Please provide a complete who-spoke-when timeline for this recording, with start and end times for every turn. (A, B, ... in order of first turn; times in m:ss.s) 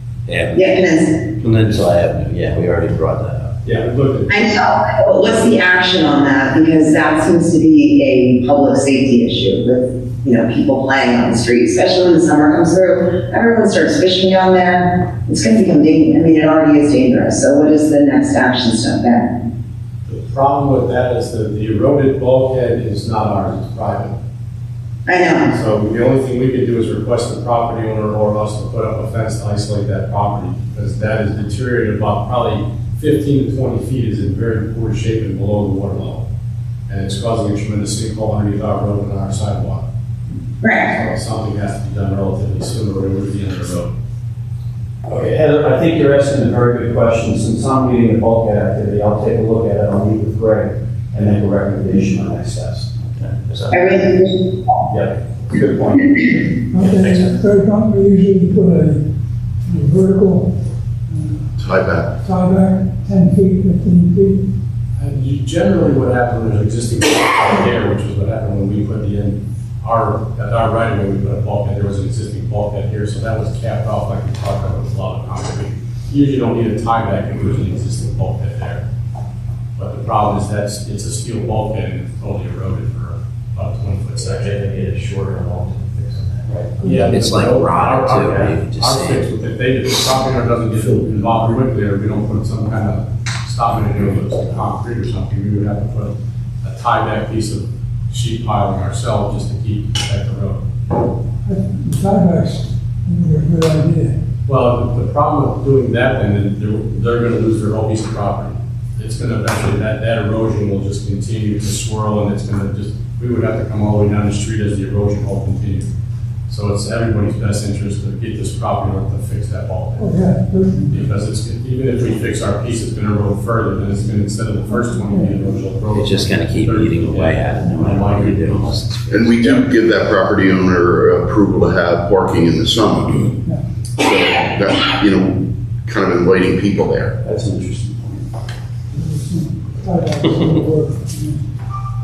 0:00.3-0:00.8 A
0:00.5-0:01.3 B
0:01.4-0:03.6 A
0:03.6-0:04.4 C
0:04.3-0:19.4 B
0:20.1-0:24.2 C
0:25.1-0:25.5 B
0:25.5-0:36.2 C
0:36.9-0:39.8 C
0:40.6-0:41.0 B
0:40.9-0:43.9 C
0:45.1-0:53.4 D
0:53.5-0:53.9 E
0:53.7-0:54.9 B
0:54.9-0:56.5 D
0:56.7-0:59.0 F
0:56.9-0:57.4 E
0:59.7-1:00.5 F
1:01.1-1:01.4 F
1:01.6-1:02.1 G
1:02.2-1:04.4 F
1:05.0-1:18.8 C
1:19.8-1:24.6 C
1:24.2-1:26.7 E
1:26.8-1:41.1 C
1:26.8-1:27.1 F
1:27.0-1:29.2 A
1:41.5-1:44.1 F
1:44.5-1:55.9 C
1:56.5-2:00.2 C
2:00.0-2:01.1 F
2:00.9-2:08.8 C
2:05.0-2:05.4 F
2:05.9-2:09.4 A
2:09.1-2:13.3 G
2:14.0-2:17.2 G
2:17.2-2:18.2 D
2:18.9-2:21.4 F